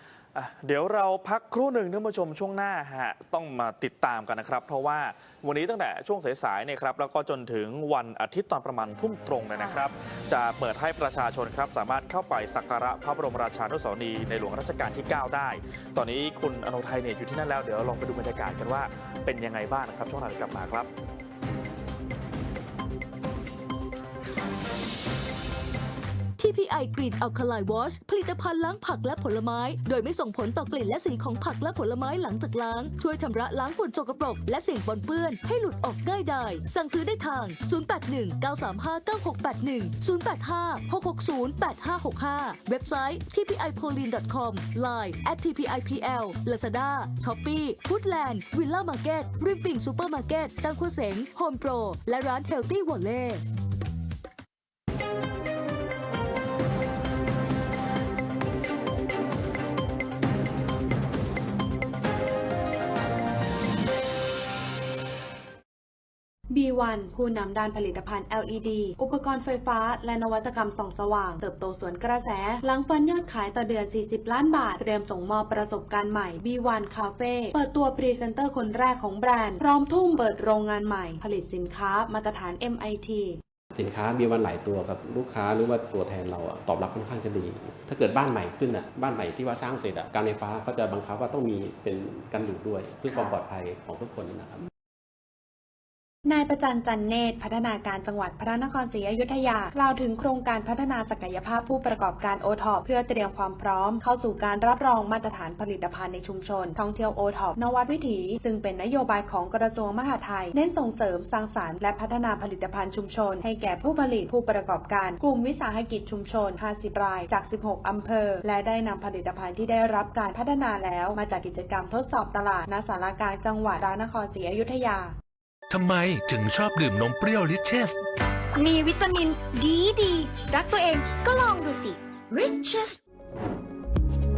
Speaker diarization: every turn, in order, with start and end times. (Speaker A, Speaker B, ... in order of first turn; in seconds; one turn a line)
Speaker A: 0.3-20.9
Speaker B: 26.4-53.4
Speaker C: 66.5-83.4
Speaker D: 83.7-94.7
Speaker C: 93.1-93.4
Speaker C: 96.3-125.2
Speaker E: 125.7-128.0
Speaker F: 128.6-133.0